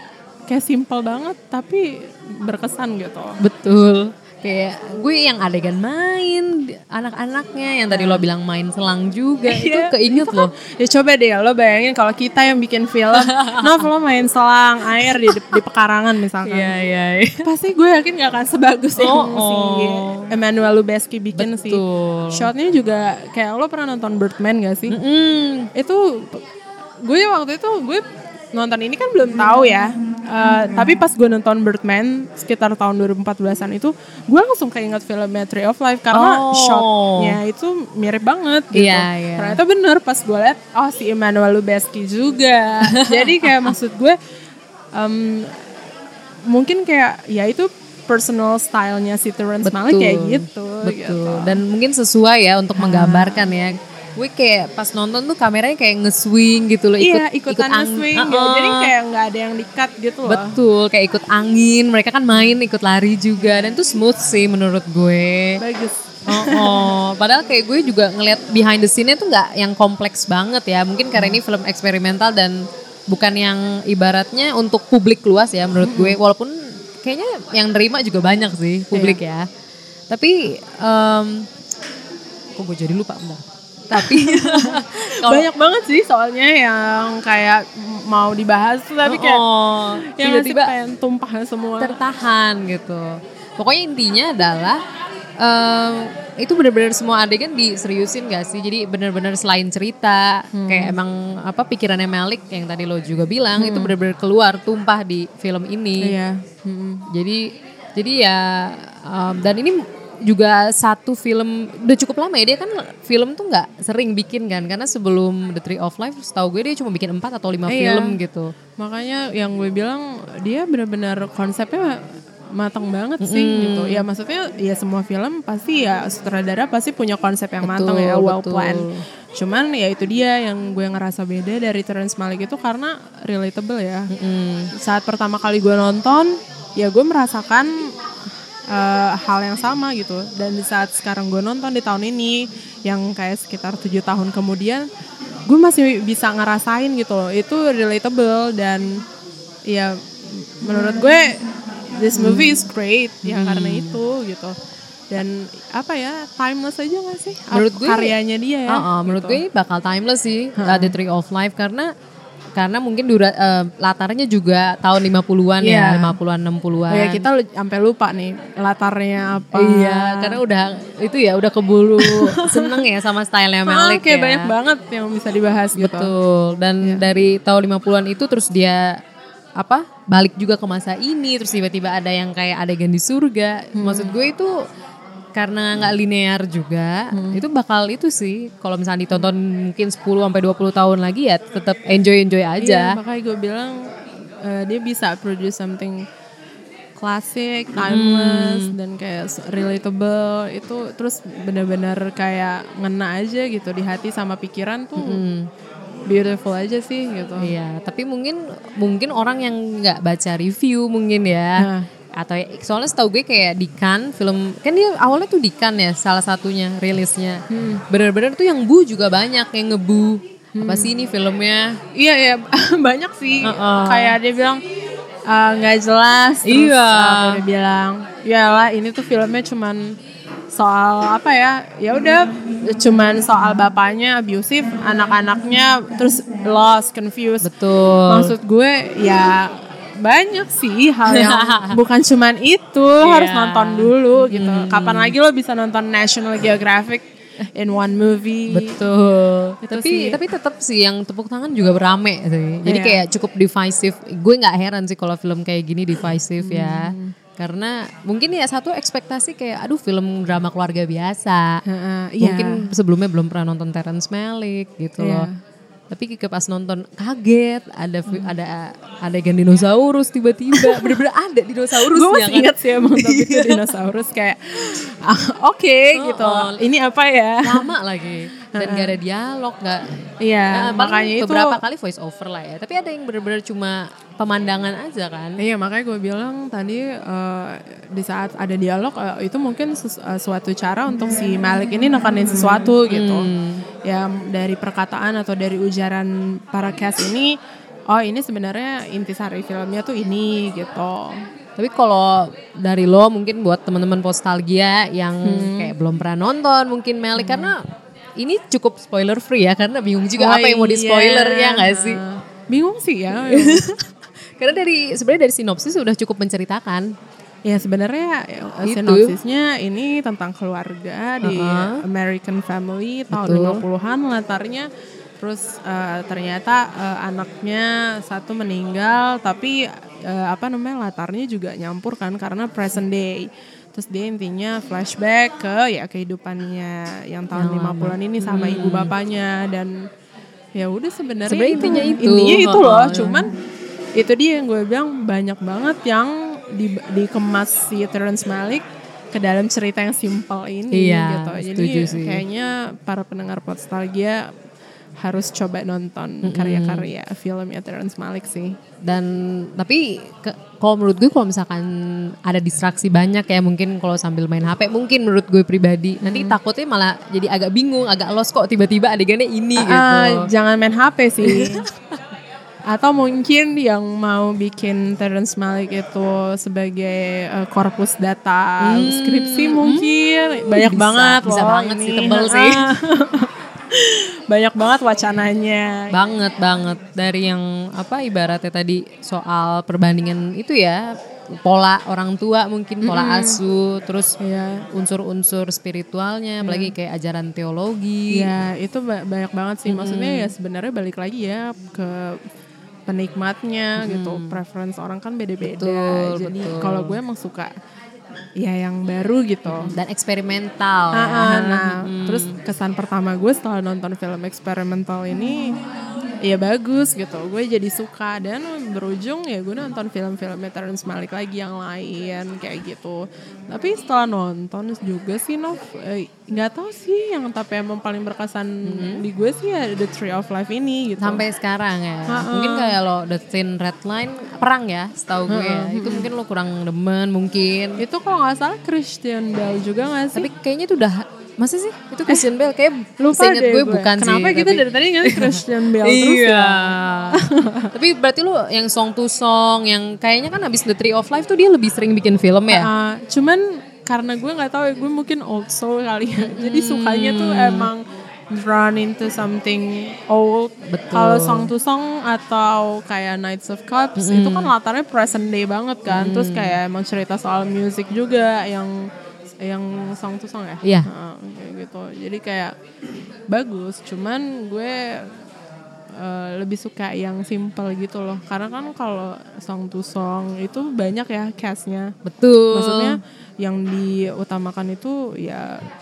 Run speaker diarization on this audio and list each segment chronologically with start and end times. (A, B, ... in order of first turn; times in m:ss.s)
0:00.5-0:03.4 A
0:03.4-0:10.5 B
0:07.9-0:08.2 A
0:09.5-0:16.7 A
0:13.2-0:13.6 B
0:15.0-0:15.6 B
0:16.4-0:17.4 B
0:17.4-0:21.8 A
0:19.0-0:20.3 B
0:21.3-0:22.5 B
0:22.3-0:24.9 A
0:24.9-0:25.7 B
0:25.7-0:26.4 A
0:27.0-0:44.2 A
0:36.1-0:37.4 B
0:38.7-0:39.6 B
0:42.9-0:43.7 B
0:44.9-0:45.5 A
0:46.5-0:51.6 A
0:49.6-0:58.9 B
0:52.8-0:53.4 A
0:57.0-1:00.6 A
1:00.3-1:05.6 B
1:03.4-1:03.7 A
1:05.6-1:06.9 A
1:06.3-1:19.5 B
1:15.8-1:16.2 A
1:18.9-1:19.2 A
1:20.1-1:21.5 B
1:22.6-1:25.5 B
1:23.9-1:29.4 A
1:29.0-1:30.7 B
1:30.2-1:32.0 A
1:31.8-1:34.8 B
1:35.4-1:46.1 B
1:40.5-1:40.9 A
1:43.6-1:43.9 A
1:46.0-1:47.0 A
1:47.1-1:58.5 B
1:57.7-1:58.1 A
1:58.8-2:02.0 A
2:02.5-2:14.1 A
2:03.2-2:04.0 B
2:07.6-2:09.0 B
2:14.1-2:14.7 B
2:14.7-2:17.7 A
2:18.7-2:24.8 A
2:25.5-2:28.9 A
2:29.7-2:30.0 A
2:30.6-2:31.3 A
2:32.0-2:34.5 A
2:32.2-2:32.6 B
2:33.2-2:34.0 B
2:35.1-2:39.4 A
2:37.5-2:38.1 B
2:38.7-2:41.9 B
2:40.6-2:40.9 A
2:42.6-2:47.2 B
2:45.6-2:46.2 A
2:46.9-2:50.4 A
2:49.5-2:54.5 B
2:52.0-2:52.8 A
2:53.7-2:56.1 A
2:55.8-2:59.0 B
2:59.6-3:04.5 B
3:03.8-3:04.1 A
3:05.3-3:13.0 B
3:07.1-3:07.4 A
3:12.6-3:13.8 A
3:14.4-3:16.0 A
3:17.0-3:25.2 A
3:17.8-3:18.7 B
3:25.0-3:25.5 B
3:26.1-3:27.5 A
3:27.4-3:31.6 B
3:31.6-3:31.9 A
3:32.2-3:41.8 B
3:37.5-3:37.8 A
3:40.6-3:40.9 A
3:41.9-3:44.6 A
3:43.4-3:44.2 B
3:45.3-3:50.0 A
3:46.4-3:47.4 B
3:50.5-3:57.5 A
3:57.4-3:58.3 B
3:58.1-4:08.8 A
4:01.1-4:01.8 B
4:03.0-4:05.1 B
4:08.5-4:21.6 B
4:09.6-4:10.2 A
4:12.6-4:13.0 A
4:16.4-4:17.1 A
4:21.7-4:22.6 A
4:22.2-4:25.3 B
4:25.0-4:25.4 A
4:25.9-4:33.6 B
4:30.5-4:30.9 A
4:31.9-4:37.7 A
4:35.9-4:36.5 B
4:37.4-4:39.8 B
4:38.6-4:39.0 A
4:40.2-4:41.6 A
4:40.5-4:45.4 B
4:45.4-4:53.3 A
4:52.9-4:53.6 B
4:53.8-4:57.3 A
4:57.9-5:01.2 A
5:01.6-5:07.6 B
5:05.2-5:05.7 A
5:07.2-5:07.5 A
5:08.2-5:12.0 B
5:10.2-5:13.6 A
5:13.3-5:13.8 B
5:14.4-5:16.9 B
5:17.4-5:24.6 A
5:18.6-5:19.1 B
5:21.2-5:21.8 B
5:23.1-5:23.6 B
5:25.2-5:39.7 A
5:37.4-5:38.9 B
5:40.5-5:43.3 A
5:41.3-5:43.2 B
5:44.0-5:54.2 A
5:50.7-5:52.2 B
5:55.0-5:58.5 A
5:56.2-5:56.9 B
5:58.8-6:10.3 B
6:06.0-6:06.4 A
6:09.6-6:11.6 A
6:11.2-6:11.7 B
6:12.7-6:25.9 A
6:18.6-6:19.9 B
6:20.5-6:22.6 B
6:25.9-6:30.9 B
6:31.4-6:34.1 B
6:32.8-6:33.4 A
6:34.2-6:34.6 A
6:34.7-6:38.3 B
6:36.4-6:36.7 A
6:38.1-6:42.2 A
6:39.7-6:40.3 B
6:42.9-6:47.5 A
6:43.8-6:44.4 B
6:45.4-6:46.9 B
6:48.4-6:49.7 A
6:49.5-6:52.3 B
6:50.9-6:55.5 A
6:56.2-7:11.2 A
7:08.6-7:09.0 B
7:11.0-7:17.8 B
7:12.1-7:12.7 A
7:15.3-7:16.1 A
7:17.8-7:20.3 A
7:20.2-7:27.2 B
7:23.0-7:27.7 A
7:27.7-7:32.7 B
7:32.5-7:48.7 A
7:36.2-7:37.7 B
7:40.7-7:41.5 B
7:44.0-7:44.5 B
7:45.9-7:46.5 B
7:49.4-7:52.5 A
7:53.3-7:55.1 A
7:56.0-8:01.9 A
8:02.0-8:03.0 B
8:02.5-8:05.6 A